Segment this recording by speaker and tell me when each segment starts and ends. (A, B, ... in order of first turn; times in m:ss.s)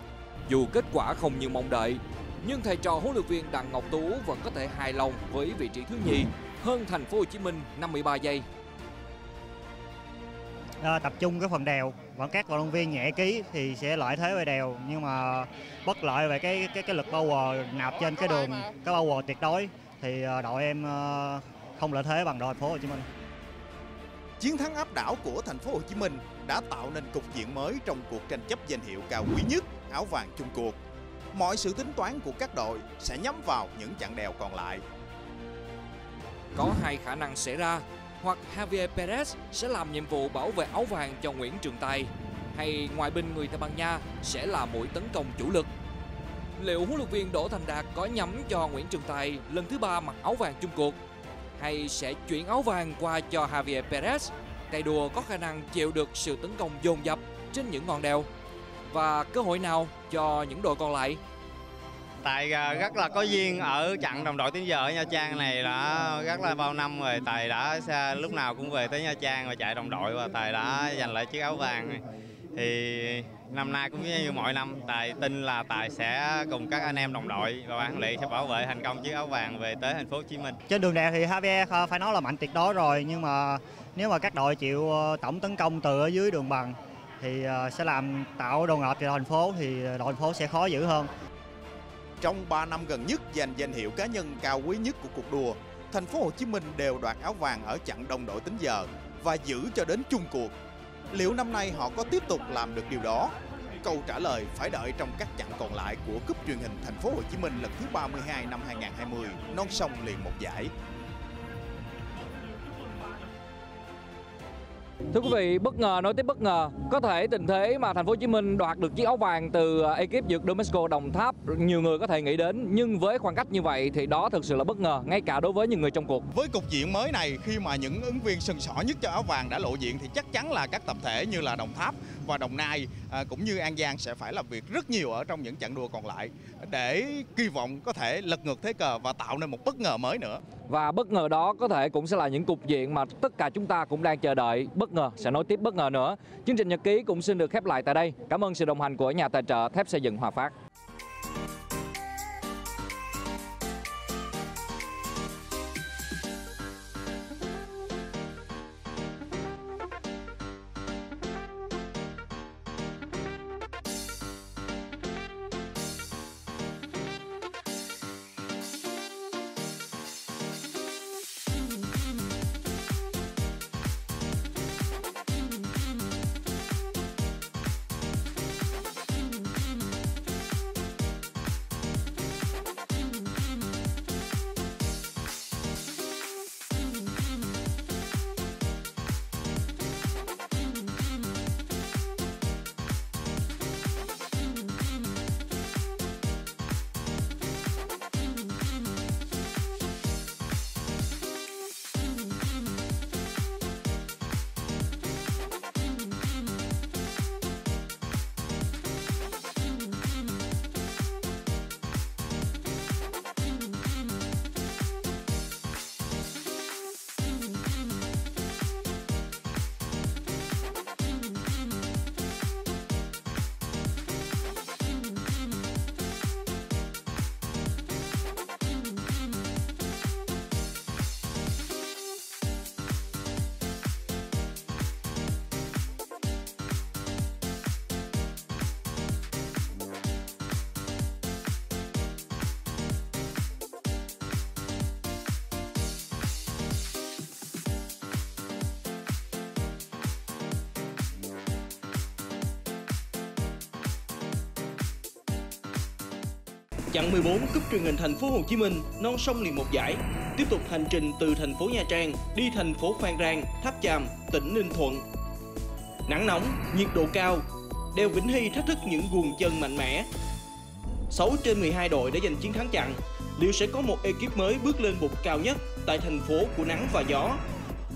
0:00.5-0:08.5 A
0:10.8-0:23.1 B
0:24.4-0:30.8 C
0:31.3-0:34.8 C
0:36.5-0:45.7 A
0:46.6-0:51.0 A
0:51.6-0:58.3 A
0:58.9-1:01.2 A
1:02.2-1:12.0 D
1:12.6-1:20.6 D
1:20.7-1:31.1 B
1:32.2-1:40.6 C
1:41.1-1:50.7 C
1:55.1-2:06.2 A
2:06.3-2:20.4 C
2:20.7-2:30.5 A
4:16.9-4:25.1 E
4:26.1-4:30.1 E
4:31.1-4:37.4 E